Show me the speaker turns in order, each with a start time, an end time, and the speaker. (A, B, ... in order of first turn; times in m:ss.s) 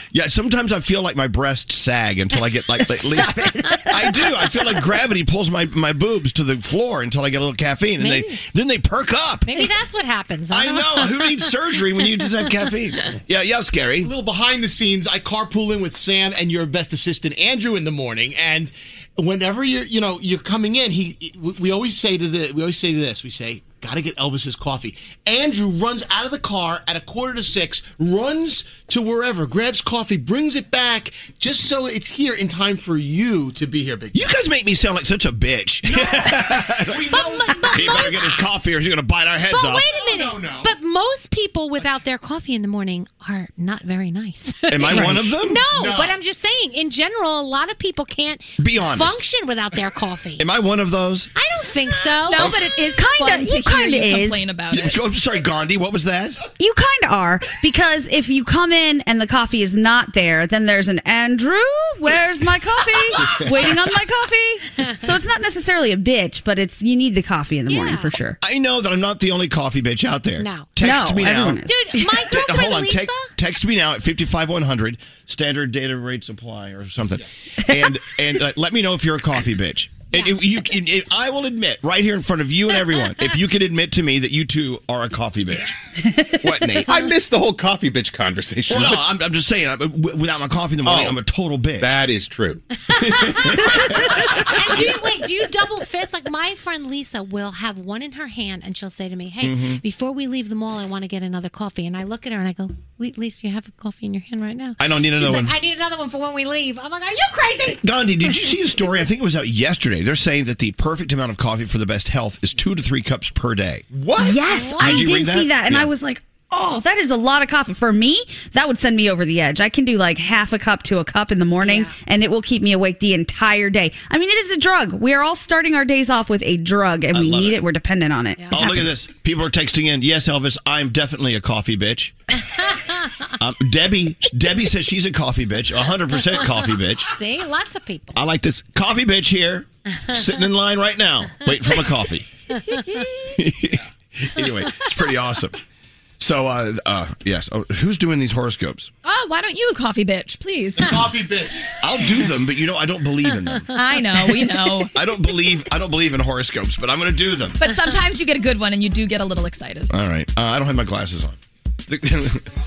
0:00.1-0:09.6 A
0:02.9-0:04.3 B
0:08.0-0:08.3 B
0:09.4-0:11.4 B
0:10.5-0:14.1 A
0:14.0-0:34.2 C
0:34.1-0:39.9 A
0:36.8-0:38.0 C
0:36.9-0:38.4 B
0:39.5-0:50.4 B
0:40.0-0:40.7 C
0:44.7-0:45.6 A
0:44.9-0:45.2 D
0:45.7-0:46.2 C
0:48.6-0:49.2 A
0:50.4-0:51.3 A
0:51.4-0:52.6 B
0:52.2-0:55.0 E
0:52.9-0:54.5 D
0:54.7-0:56.4 A
0:56.6-1:08.4 D
1:07.7-1:08.1 B
1:08.4-1:11.6 A
1:10.4-1:10.7 B
1:10.8-1:12.2 D
1:11.6-1:13.3 B
1:12.2-1:25.8 A
1:20.1-1:20.4 B
1:26.4-1:27.1 A
1:26.8-1:29.1 F
1:28.7-1:32.0 A
1:30.8-1:31.2 F
1:31.8-1:32.6 F
1:32.9-1:47.8 B
1:33.1-1:34.2 A
1:39.4-1:39.8 A
1:44.8-1:45.5 A
1:47.7-1:53.8 A
1:53.9-1:54.3 C
1:54.2-2:08.8 D
1:54.4-1:55.0 B
1:54.8-1:55.9 A
2:01.6-2:01.9 B
2:07.1-2:07.6 A
2:08.4-2:08.8 B
2:08.5-2:12.1 A
2:12.6-2:12.9 B
2:13.4-2:17.1 A
2:17.1-2:18.2 B
2:18.1-2:22.3 A
2:23.3-2:25.6 A
2:26.2-2:28.9 A
2:29.0-2:31.1 E
2:30.8-2:31.7 C
2:31.8-2:33.7 A
2:33.7-2:34.9 E
2:34.9-2:37.6 A
2:37.6-2:39.9 E
2:39.9-2:42.4 A